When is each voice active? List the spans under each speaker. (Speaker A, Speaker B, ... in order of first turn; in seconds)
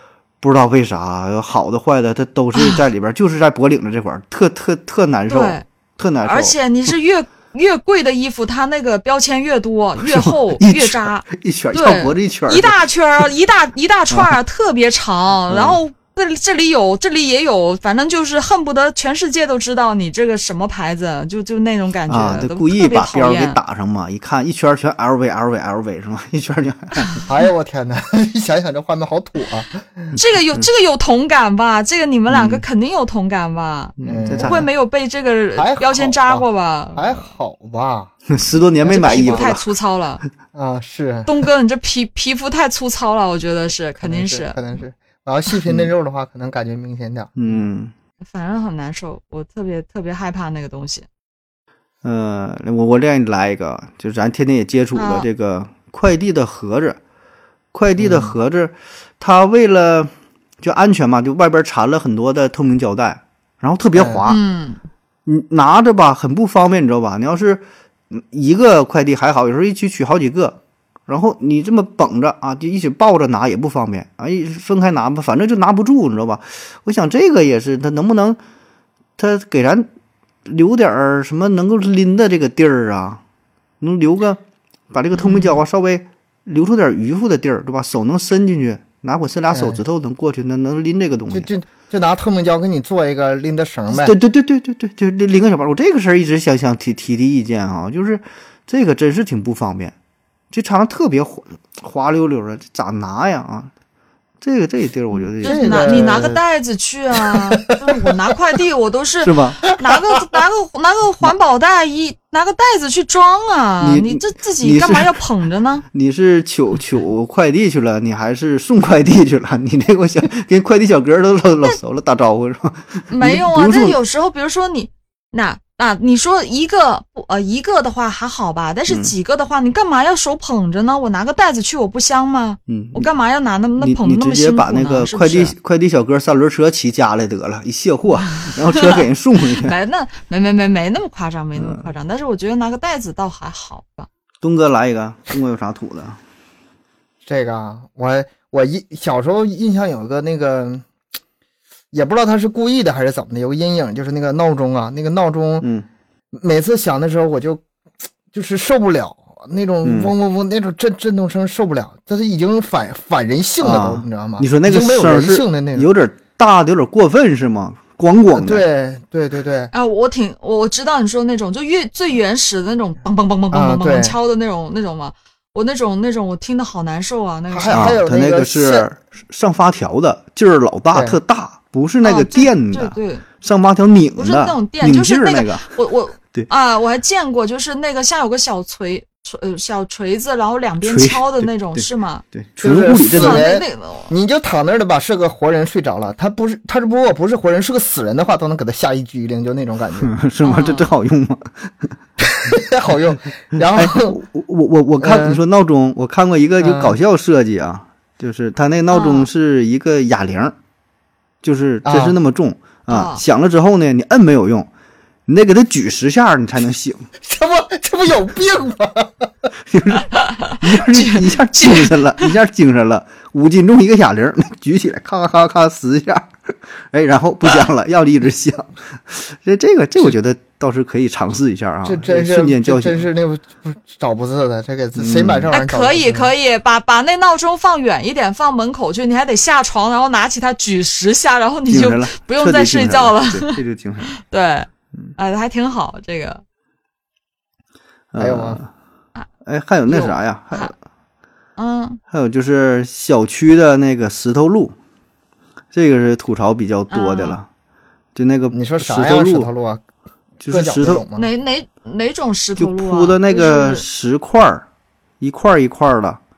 Speaker A: 0.4-6.9, 10.0-12.8, 15.5-15.8, 22.1-27.2, 32.3-32.6, 34.0-34.6, 38.3-39.6, 47.4-47.9, 52.0-57.0, 57.7-60.1, 60.6-64.4, 65.2-78.4, 79.2-79.9, 80.5-83.2, 83.8-84.4, 84.9-91.5, 93.9-99.9, 100.5-103.7, 104.4-106.2, 109.2-109.6, 113.8-115.1, 115.9-124.0, 132.7-133.1, 133.8-139.7, 141.6-141.9, 144.4-146.2, 159.8-160.1, 163.6-168.6, 177.7-185.7, 190.8-193.4, 200.0-201.9, 203.6-210.5, 211.4-214.7, 215.3-217.1, 219.7-233.0, 234.9-235.5, 241.7-244.1, 248.1-248.7, 249.4-250.7, 252.1-254.7, 255.7-257.5, 258.1-259.5, 260.4-261.0, 262.6-264.6, 265.2-266.2
Speaker B: 2.5-2.8, 5.3-5.6, 6.2-23.6, 30.1-37.2, 38.9-40.2, 41.2-44.6, 48.3-51.0, 54.9-55.3, 64.2-64.8, 85.1-85.6, 105.1-115.8, 123.1-135.5, 138.2-139.0, 139.6-144.1, 169.7-178.0, 182.0-183.2, 184.2-192.2, 193.1-194.1, 200.4-200.9, 208.9-209.3, 212.9-213.2, 220.1-222.3, 235.5-246.4, 249.9-250.7, 251.6-252.0, 256.9-257.4, 261.1-263.8
Speaker C: 27.2-30.1, 34.0-34.7, 35.6-38.1, 38.8-39.5, 40.5-41.4, 44.0-47.6, 58.0-58.3, 63.9-64.2, 89.5-89.8, 91.3-94.1, 105.4-106.4, 107.2-108.1, 147.2-150.8, 151.9-155.7, 156.3-157.6, 158.3-165.9, 168.3-169.7, 173.5-174.2, 177.5-178.9, 180.9-181.2, 192.6-200.1, 202.2-204.2, 205.0-205.4, 206.6-207.0, 211.8-212.2, 217.2-219.3, 231.8-236.3, 248.2-248.6, 258.5-259.8, 260.5-261.3